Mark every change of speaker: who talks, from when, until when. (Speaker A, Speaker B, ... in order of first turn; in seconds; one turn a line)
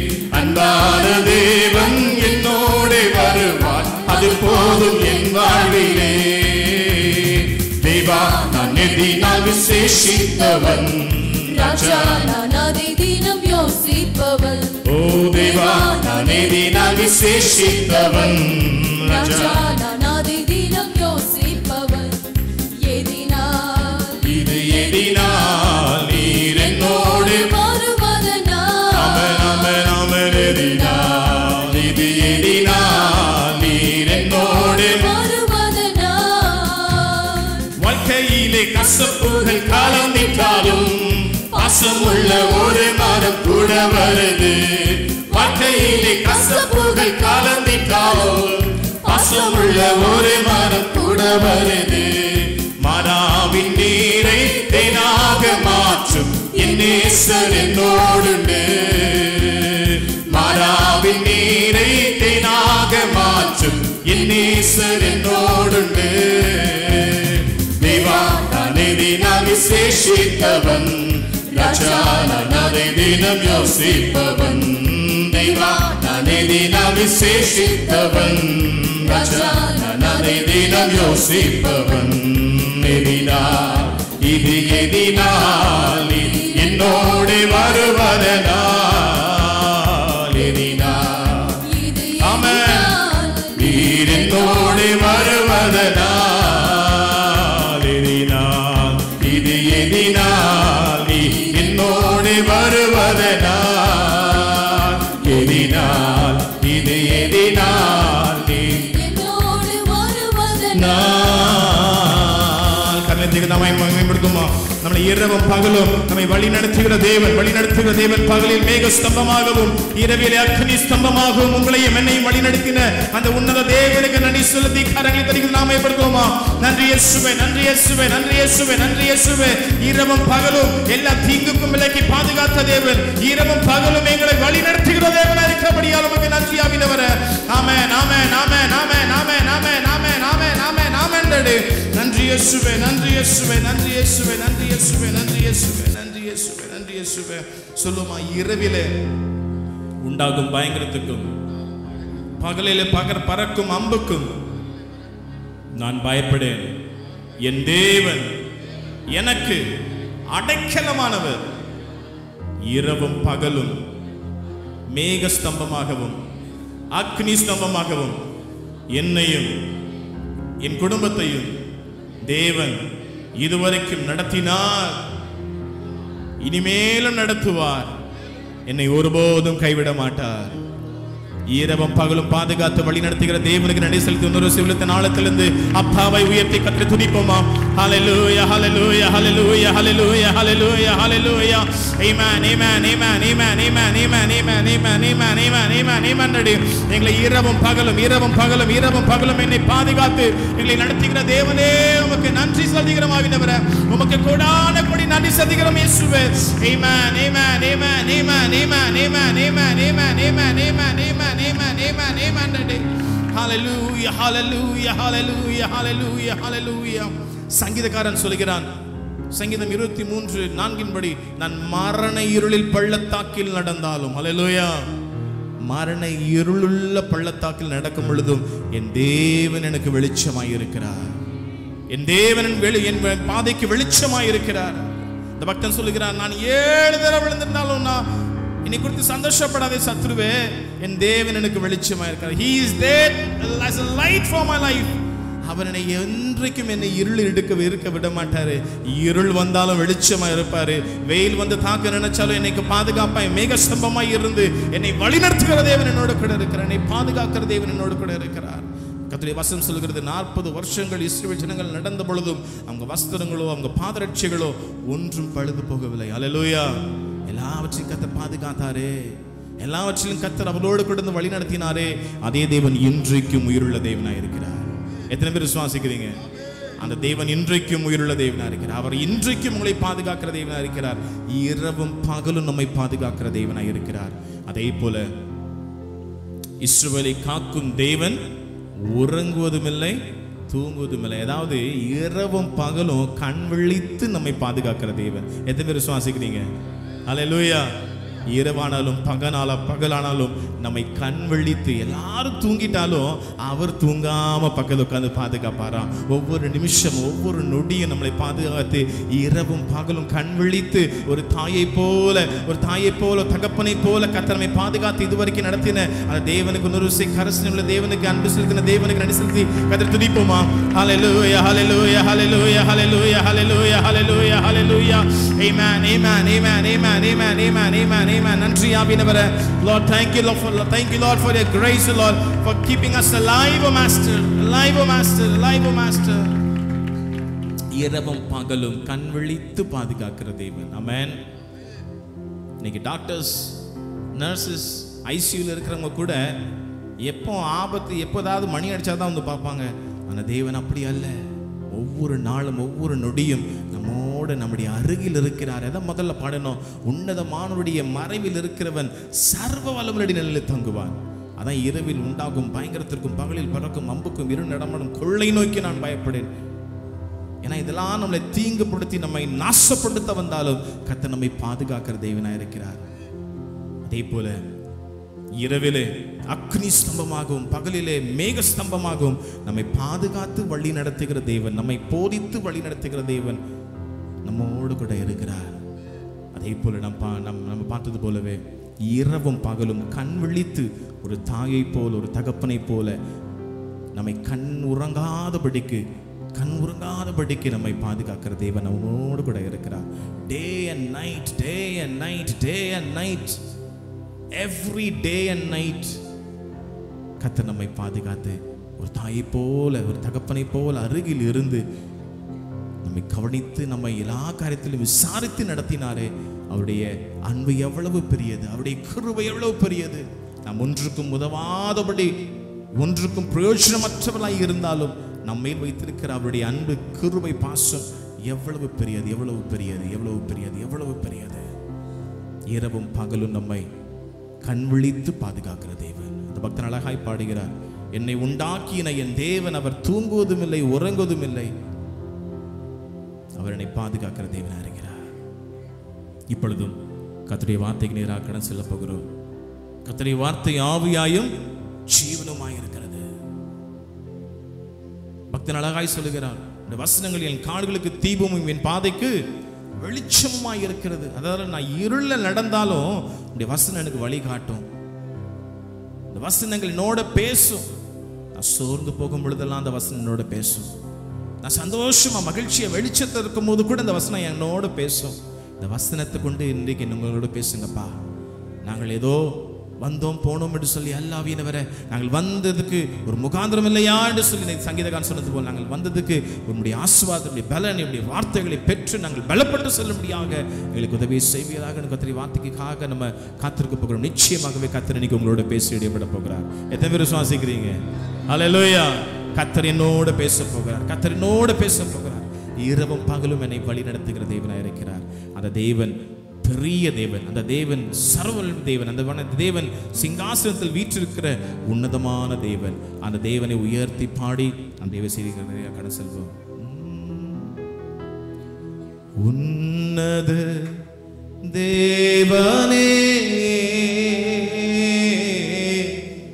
Speaker A: 0.3-11.8
Speaker B: 0.4-6.1
Speaker C: 4.1-6.5
Speaker B: 8.1-18.4
Speaker A: 14.9-18.9
Speaker C: 19.0-19.5
Speaker B: 19.0-33.2
Speaker C: 24.3-27.4
Speaker A: 24.6-25.0
Speaker A: 26.1-26.6
Speaker C: 28.9-35.0
Speaker A: 30.9-34.0
Speaker B: 34.1-37.7
Speaker C: 37.8-41.9
Speaker B: 38.8-40.9
Speaker B: 41.5-43.5
Speaker A: 41.6-48.5
Speaker B: 45.3-51.0
Speaker C: 45.4-46.7
Speaker C: 47.8-48.6
Speaker A: 49.1-52.5
Speaker C: 49.1-50.9
Speaker C: 52.8-57.4
Speaker B: 54.6-58.4
Speaker A: 56.9-59.6
Speaker A: 60.3-67.2
Speaker C: 60.4-67.0
Speaker B: 60.5-61.0
Speaker B: 64.0-65.7
Speaker A: 67.8-82.0
Speaker B: 67.8-70.2
Speaker B: 71.5-74.7
Speaker B: 75.3-78.3
Speaker C: 78.7-79.4
Speaker B: 79.0-82.0
Speaker C: 80.3-83.0
Speaker A: 82.8-83.9
Speaker C: 83.7-91.6
Speaker B: 84.8-88.0
Speaker A: 86.7-88.3
Speaker B: 90.5-95.4
Speaker C: 92.2-92.9
Speaker C: 93.6-108.9
Speaker A: 99.8-100.5
Speaker B: 101.2-102.9
Speaker A: 105.5-105.9
Speaker B: 108.7-111.7
Speaker C: 110.7-148.9
Speaker C: 150.0-151.3
Speaker C: 152.4-154.3
Speaker C: 155.8-156.7
Speaker C: 157.4-158.3
Speaker C: 159.1-159.6
Speaker C: 160.3-161.4
Speaker C: 162.7-163.8
Speaker C: 164.9-166.2
Speaker C: 166.9-168.2
Speaker C: 168.9-169.5
Speaker C: 170.6-171.6
Speaker C: 172.3-172.8
Speaker C: 173.4-175.0
Speaker C: 176.4-177.9
Speaker C: 178.7-180.5
Speaker C: 181.5-218.7
Speaker C: 219.3-224.9
Speaker C: 225.6-231.1
Speaker C: 231.9-234.8
Speaker C: 235.4-238.1
Speaker C: 238.7-266.8
Speaker C: 267.3-276.2
Speaker C: 276.8-285.1
Speaker C: 286.6-288.2
Speaker C: 288.8-290.0
Speaker C: 290.5-296.5
Speaker C: 297.1-297.7
Speaker C: 298.3-336.3
Speaker C: 337.7-341.2
Speaker C: 342.6-343.6
Speaker C: 344.1-346.3
Speaker C: 347.0-351.1
Speaker C: 351.7-366.3
Speaker C: 367.4-372.9
Speaker C: 373.9-374.4
Speaker C: 375.4-383.4
Speaker C: 384.2-385.6
Speaker C: 386.3-393.0
Speaker C: 393.9-395.8
Speaker C: 396.4-403.4
Speaker C: 404.4-406.0
Speaker C: 407.2-411.6
Speaker C: 412.8-422.2
Speaker C: 422.8-431.4
Speaker C: 432.5-433.7
Speaker C: 434.4-441.5
Speaker C: 443.4-445.1
Speaker C: 446.3-446.8
Speaker C: 447.3-449.1
Speaker C: 449.9-451.3
Speaker C: 451.9-453.1
Speaker C: 455.3-459.2
Speaker C: 459.8-464.6
Speaker C: 466.1-467.7
Speaker C: 468.4-470.8
Speaker C: 471.4-478.0
Speaker C: 478.6-497.8
Speaker C: 498.3-517.6
Speaker C: 519.2-520.8
Speaker C: 521.5-526.0